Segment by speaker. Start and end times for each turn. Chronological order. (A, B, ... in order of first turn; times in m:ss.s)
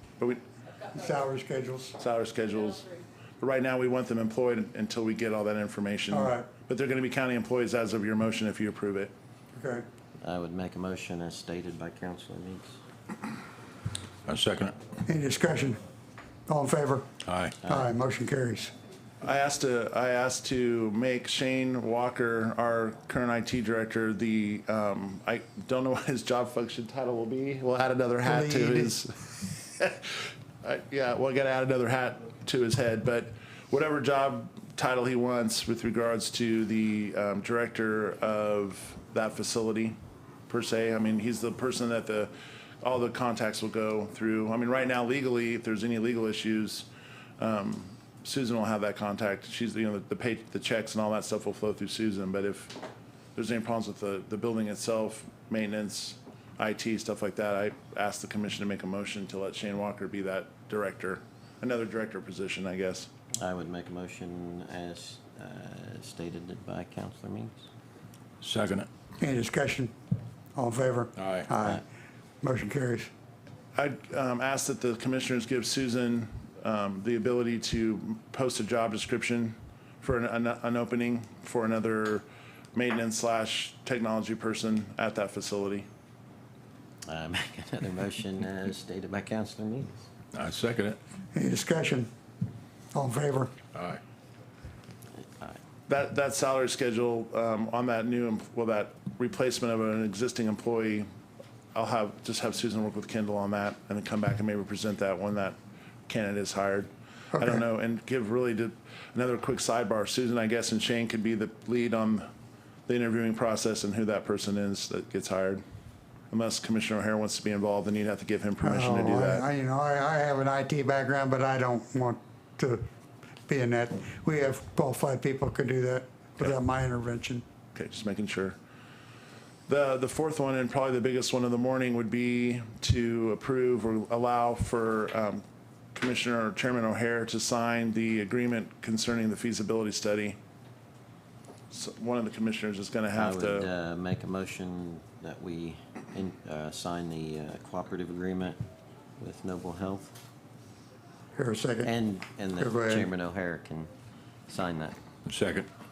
0:00.9-0:02.0 A
0:02.0-0:02.9 B
0:03.4-0:09.1 B
0:06.1-0:06.5 A
0:09.6-0:09.8 A
0:10.2-0:12.8 C
0:14.3-0:14.8 D
0:15.0-0:15.8 A
0:16.5-0:17.1 A
0:17.2-0:17.5 D
0:17.6-0:18.7 A
0:19.2-0:39.9 B
0:28.2-0:28.9 A
0:40.5-0:46.9 B
0:47.4-0:52.8 B
0:53.3-1:03.1 B
1:03.4-1:07.6 C
1:08.4-1:08.9 D
1:09.2-1:09.9 A
1:10.5-1:11.8 A
1:11.2-1:11.5 D
1:12.4-1:13.1 A
1:13.7-1:25.8 B
1:27.1-1:30.1 C
1:30.3-1:31.0 D
1:31.3-1:32.1 A
1:32.9-1:33.5 A
1:33.7-1:34.0 D
1:35.2-1:35.6 C
1:35.9-1:41.1 B
1:41.7-1:45.6 B
1:46.1-1:52.2 B
1:52.9-1:55.6 B
1:56.3-1:59.5 B
1:58.6-2:02.8 A
2:03.5-2:07.4 A
2:07.7-2:08.6 B
2:09.7-2:20.4 B
2:21.7-2:23.7 B
2:23.2-2:28.6 C
2:29.2-2:30.1 C
2:31.4-2:31.9 A
2:31.8-2:33.9 C
2:32.6-2:33.1 A
2:34.5-2:35.0 C
2:35.3-2:35.7 D